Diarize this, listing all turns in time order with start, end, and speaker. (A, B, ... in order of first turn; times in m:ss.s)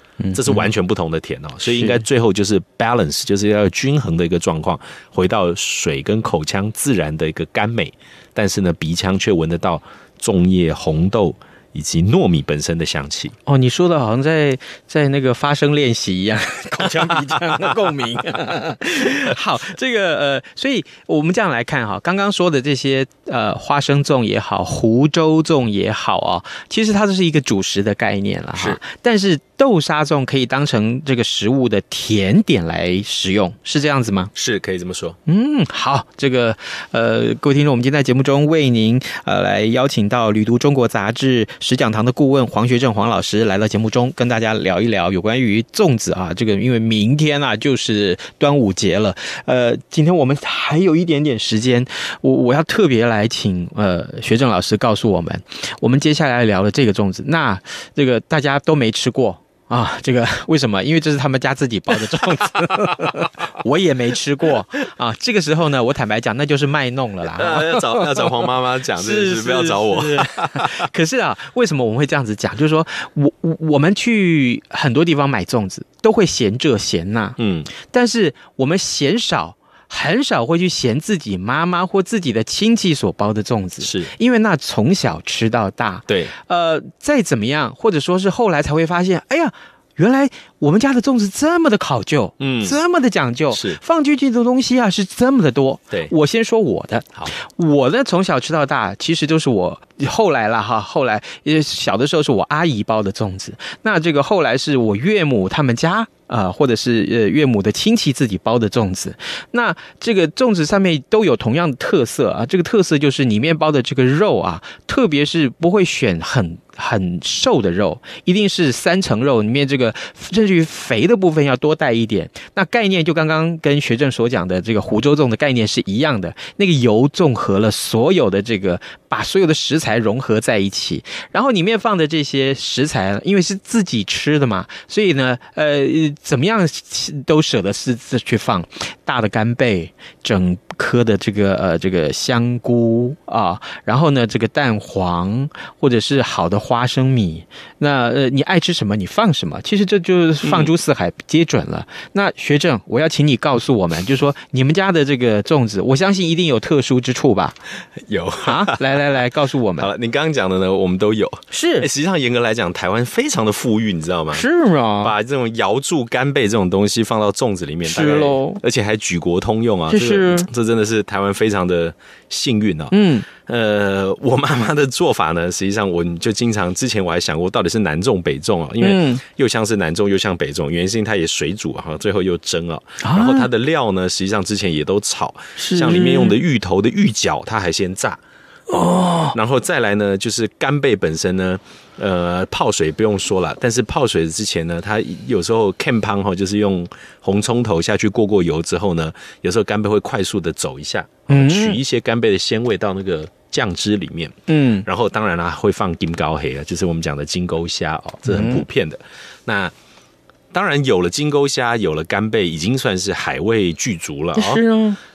0:00.2-0:00.7 A
0:00.3-0:13.4 B
0:01.8-0:02.0 A
0:13.5-0:34.3 A
0:34.4-0:35.2 B
0:35.3-1:08.3 A
1:07.3-1:10.9 B
1:09.0-2:37.6 A
1:17.4-1:17.7 B
1:23.8-1:24.1 B
1:26.1-1:26.3 B
1:32.4-1:32.8 B
1:33.5-1:33.8 B
2:30.4-2:30.7 B
2:38.1-2:39.0 B
2:38.4-2:39.9 A
2:39.8-2:44.4 B
2:41.5-2:41.9 A
2:44.3-2:45.1 A
2:45.0-3:08.2 B
2:47.8-2:48.6 A
2:49.9-2:50.5 A
2:52.9-2:53.3 A
2:58.8-2:59.2 A
3:03.0-3:03.5 A
3:05.6-3:06.4 A
3:08.7-3:09.4 A
3:09.3-3:29.7 B
3:21.3-3:21.8 A
3:24.5-3:24.9 A
3:28.3-3:28.6 A
3:30.5-3:34.6 B
3:34.4-3:35.0 A